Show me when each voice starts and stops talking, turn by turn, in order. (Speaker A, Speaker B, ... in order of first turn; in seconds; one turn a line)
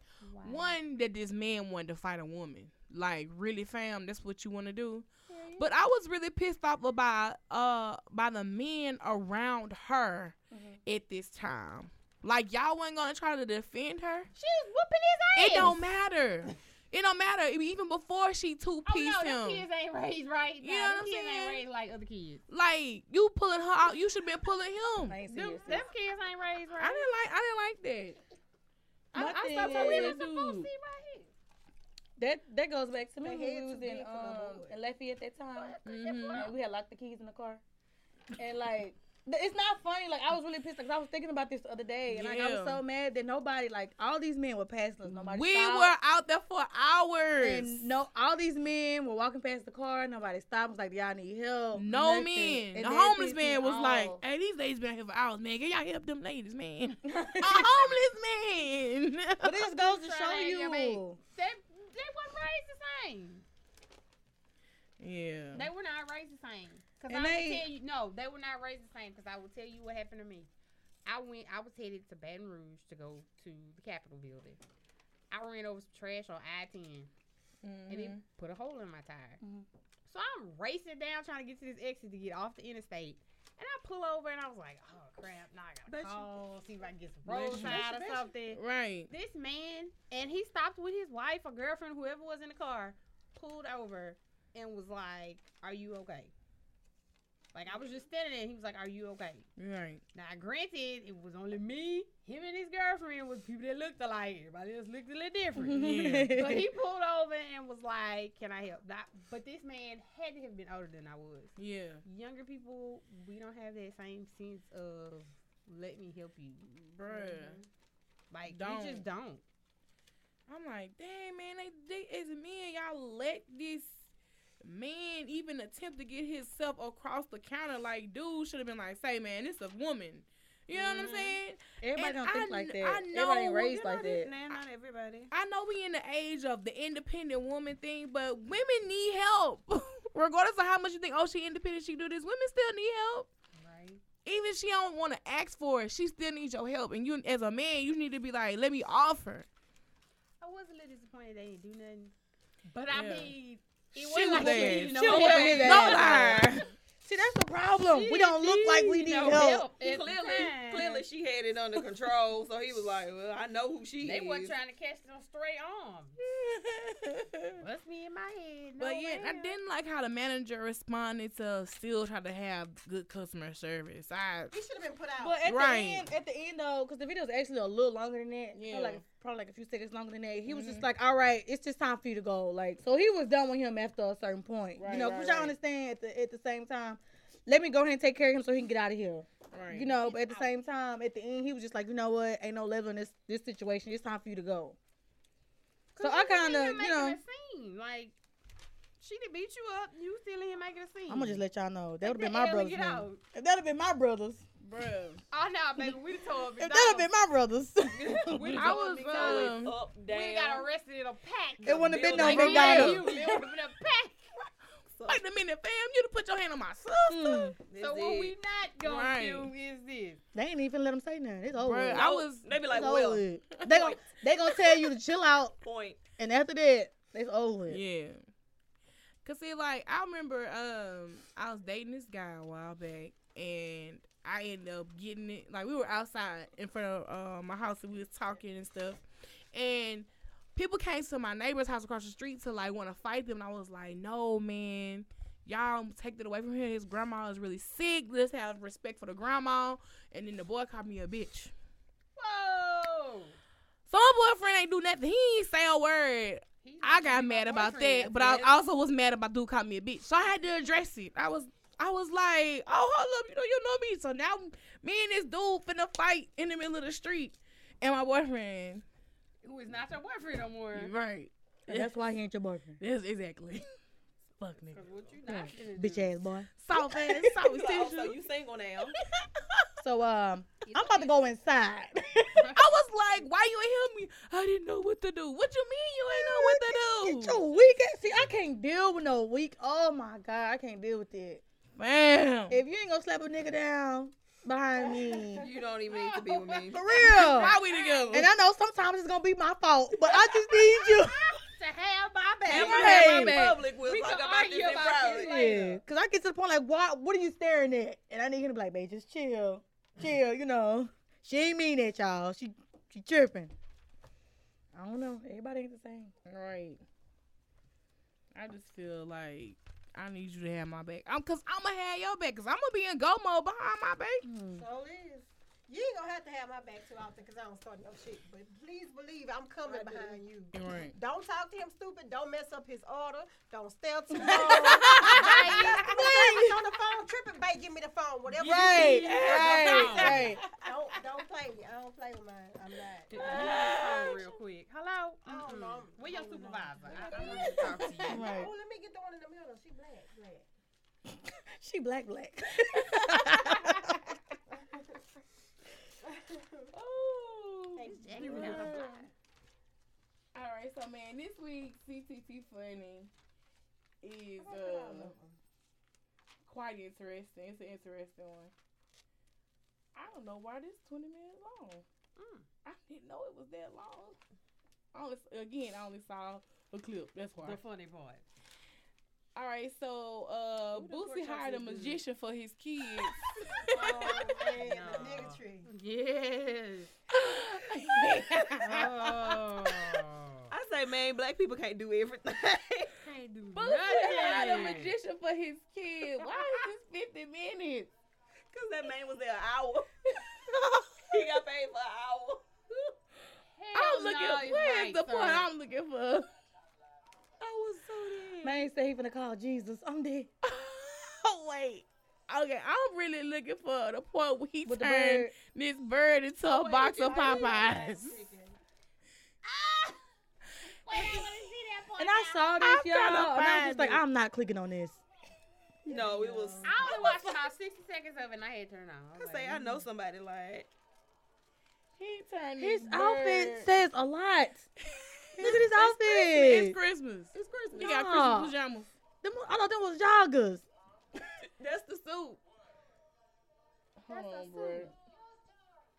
Speaker A: 0.2-0.8
Speaker B: 0.4-14.3
Speaker A: 5.3-5.7
Speaker C: 10.5-10.8
Speaker A: 14.3-15.8
Speaker B: 15.3-19.7
Speaker A: 18.9-22.4
Speaker B: 20.6-21.6
Speaker B: 22.5-25.2
Speaker C: 25.1-25.9
Speaker A: 25.3-27.1
Speaker B: 26.8-28.2
Speaker B: 29.1-30.7
Speaker C: 29.1-30.2
Speaker A: 29.2-31.3
Speaker C: 32.2-35.8
Speaker D: 33.2-34.8
Speaker A: 35.5-36.5
Speaker B: 35.8-36.5
Speaker C: 36.3-37.6
Speaker C: 38.4-45.9
Speaker B: 42.1-42.8
Speaker B: 45.1-47.9
Speaker C: 47.4-54.2
Speaker B: 51.7-59.6
Speaker C: 57.1-57.8
Speaker C: 59.4-61.2
Speaker A: 59.7-63.5
Speaker B: 65.0-65.7
Speaker A: 65.5-70.5
Speaker C: 67.1-67.7
Speaker A: 71.1-74.6
Speaker A: 75.3-77.1
Speaker B: 77.6-78.2
Speaker A: 77.9-79.4
Speaker C: 79.4-79.7
Speaker A: 80.1-96.3
Speaker E: 85.9-86.3
Speaker B: 87.3-89.1
Speaker E: 87.3-88.3
Speaker A: 97.5-99.5
Speaker B: 99.6-100.0
Speaker A: 100.1-117.7
Speaker C: 105.6-106.7
Speaker B: 105.7-106.5
Speaker B: 111.6-112.0
Speaker B: 116.7-117.6
Speaker A: 118.3-119.4
Speaker B: 118.5-119.1
Speaker B: 120.5-124.1
Speaker B: 124.6-133.8
Speaker E: 130.7-131.4
Speaker C: 131.8-134.3
Speaker E: 133.5-135.3
Speaker B: 135.3-143.3
Speaker A: 143.6-144.0
Speaker B: 144.2-149.5
Speaker A: 150.4-152.1
Speaker A: 152.7-156.6
Speaker B: 152.9-153.3
Speaker B: 153.9-156.7
Speaker C: 154.3-156.4
Speaker E: 154.9-156.4
Speaker C: 157.0-159.7
Speaker A: 157.9-161.0
Speaker E: 159.8-164.5
Speaker A: 164.0-166.2
Speaker B: 166.2-167.6
Speaker A: 167.6-169.6
Speaker B: 168.8-174.5
Speaker D: 174.5-175.4
Speaker C: 175.2-194.8
Speaker B: 175.4-176.1
Speaker B: 178.5-179.0
Speaker B: 180.5-180.9
Speaker B: 184.8-185.5
Speaker B: 189.5-190.0
Speaker A: 190.0-190.5
Speaker A: 195.9-198.2
Speaker C: 196.0-197.2
Speaker A: 199.0-201.4
Speaker C: 201.1-204.4
Speaker A: 202.0-203.2
Speaker B: 204.6-205.2
Speaker A: 205.3-207.1
Speaker C: 206.6-208.6
Speaker E: 207.9-210.7
Speaker A: 208.3-214.3
Speaker B: 208.5-209.8
Speaker E: 211.6-213.2
Speaker C: 211.6-213.2
Speaker B: 212.2-213.4
Speaker E: 214.9-215.2
Speaker B: 215.1-217.6
Speaker C: 217.1-217.6
Speaker E: 217.7-218.4
Speaker A: 217.7-220.2
Speaker B: 218.8-219.5
Speaker C: 220.3-225.6
Speaker B: 221.6-222.7
Speaker E: 221.9-224.0
Speaker E: 225.6-226.0
Speaker C: 226.2-227.8
Speaker B: 227.7-228.2
Speaker B: 229.2-251.5
Speaker A: 252.2-253.4
Speaker B: 253.9-268.8
Speaker A: 256.6-258.6
Speaker A: 269.4-270.9
Speaker B: 270.7-271.9
Speaker C: 271.7-272.8
Speaker B: 272.8-273.7
Speaker B: 274.4-274.9
Speaker A: 274.7-276.2
Speaker C: 275.3-277.4
Speaker B: 276.6-278.2
Speaker E: 277.3-279.0
Speaker B: 279.2-279.7
Speaker C: 279.8-282.6
Speaker A: 280.6-281.3
Speaker B: 282.5-287.4
Speaker C: 286.1-291.4
Speaker B: 291.8-292.6
Speaker C: 292.5-295.5
Speaker E: 295.4-296.8
Speaker A: 295.9-298.3
Speaker C: 296.7-297.6
Speaker B: 296.9-298.3
Speaker C: 298.1-301.3
Speaker A: 300.2-305.8
Speaker E: 302.5-305.6
Speaker C: 302.5-303.4
Speaker B: 302.5-303.6
Speaker C: 305.2-313.5
Speaker C: 314.7-316.1
Speaker B: 316.3-316.8
Speaker B: 318.3-324.3
Speaker C: 324.2-324.6
Speaker D: 324.5-343.6
Speaker E: 329.6-330.2
Speaker B: 330.5-331.0
Speaker C: 334.1-335.2
Speaker B: 334.3-335.6
Speaker A: 334.9-336.0
Speaker C: 335.9-336.6
Speaker C: 338.4-340.4
Speaker A: 338.4-340.3
Speaker B: 338.6-340.6
Speaker A: 343.1-348.2
Speaker B: 343.2-344.2
Speaker D: 345.2-350.5
Speaker C: 348.1-348.5
Speaker C: 351.1-354.1
Speaker B: 352.8-354.0
Speaker D: 354.5-354.9
Speaker D: 356.0-356.7
Speaker B: 356.7-359.1
Speaker D: 357.8-358.8
Speaker A: 357.8-359.1
Speaker B: 360.3-363.1
Speaker B: 364.0-365.1
Speaker D: 364.4-365.4
Speaker B: 366.4-368.5
Speaker B: 369.9-371.9
Speaker A: 372.2-372.5
Speaker B: 372.6-374.2
Speaker B: 374.9-377.6
Speaker A: 377.4-378.2
Speaker B: 379.4-384.3
Speaker E: 380.7-382.0
Speaker A: 383.7-386.9
Speaker D: 383.7-385.7
Speaker B: 387.1-389.1
Speaker A: 388.5-390.5
Speaker E: 390.5-393.0
Speaker A: 393.0-394.9
Speaker B: 393.5-397.9
Speaker E: 398.5-400.4
Speaker B: 400.5-401.1
Speaker E: 401.0-402.5
Speaker A: 403.5-405.5
Speaker B: 403.7-406.3
Speaker E: 407.4-408.6
Speaker C: 408.4-410.3
Speaker B: 410.4-418.2
Speaker C: 414.6-415.3
Speaker D: 416.5-418.6
Speaker A: 420.8-422.7
Speaker B: 420.9-421.3
Speaker C: 422.0-425.0
Speaker B: 422.6-424.0
Speaker E: 425.9-427.0
Speaker D: 425.9-427.0
Speaker A: 426.6-429.8
Speaker E: 429.1-430.7
Speaker B: 432.0-433.7
Speaker C: 432.6-434.7
Speaker B: 434.9-438.9
Speaker C: 435.4-436.8
Speaker E: 437.3-438.0
Speaker C: 437.8-438.5
Speaker C: 439.2-440.6
Speaker E: 441.4-442.4
Speaker B: 444.0-444.9
Speaker A: 444.1-444.9